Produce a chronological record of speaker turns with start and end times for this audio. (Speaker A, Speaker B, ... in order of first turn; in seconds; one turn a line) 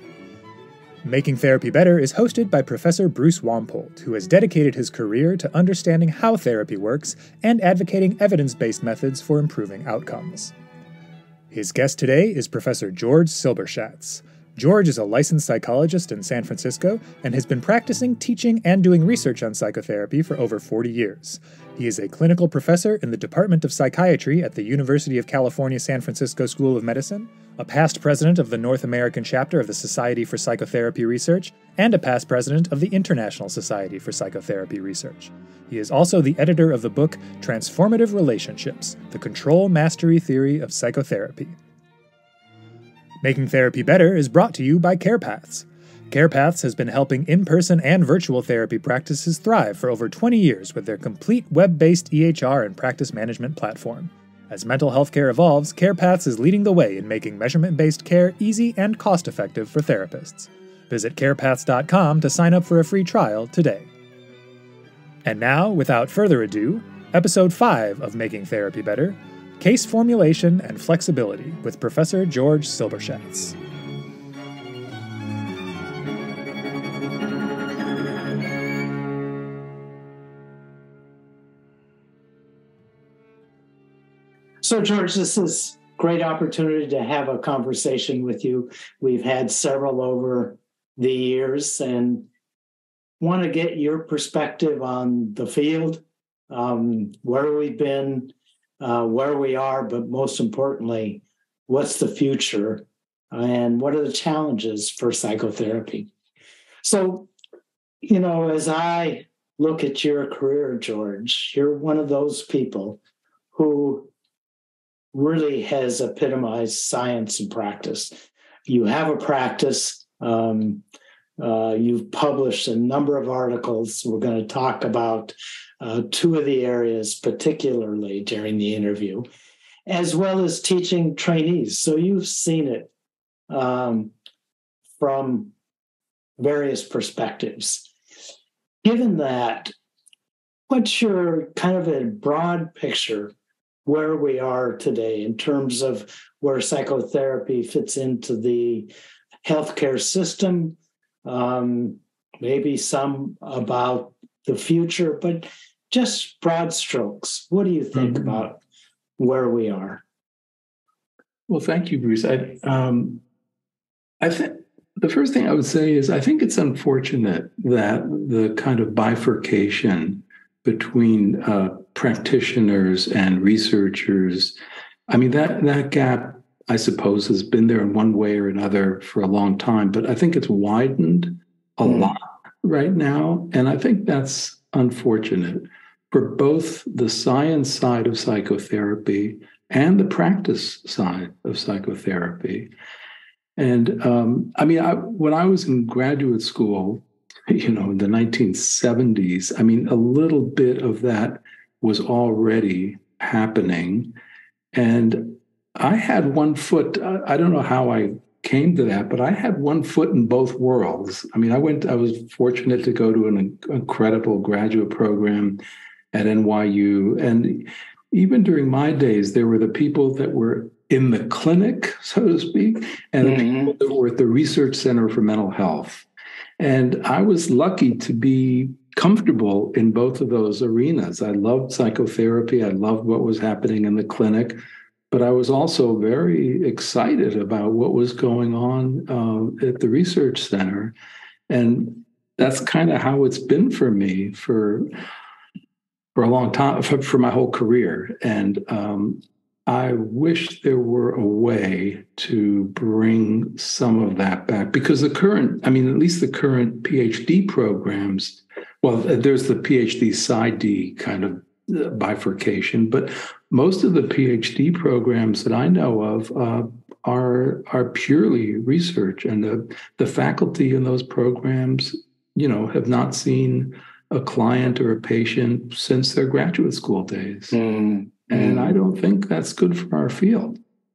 Speaker A: 1.0-10.5
Speaker A: 11.5-41.6
Speaker A: 43.2-63.9
Speaker A: 65.2-73.5
Speaker B: 84.6-92.3
Speaker B: 93.2-106.1
Speaker B: 106.8-107.3
Speaker B: 108.0-113.0
Speaker B: 113.5-114.1
Speaker B: 115.1-120.8
Speaker B: 121.4-129.3
Speaker B: 129.8-132.9
Speaker B: 133.5-134.1
Speaker B: 135.0-135.5
Speaker B: 136.4-137.9
Speaker B: 138.8-139.7
Speaker B: 140.7-143.3
Speaker B: 143.8-148.9
Speaker B: 149.4-158.6
Speaker C: 157.9-158.4
Speaker B: 159.2-160.0
Speaker C: 161.5-163.2
Speaker C: 164.2-174.6
Speaker C: 175.1-192.7
Speaker B: 181.8-182.1
Speaker C: 193.6-204.2
Speaker C: 204.7-215.6
Speaker C: 216.1-226.1
Speaker B: 223.2-223.7
Speaker C: 226.6-234.6
Speaker C: 235.1-240.9
Speaker C: 241.5-244.9
Speaker C: 246.1-277.6
Speaker B: 277.5-278.7
Speaker C: 278.3-280.6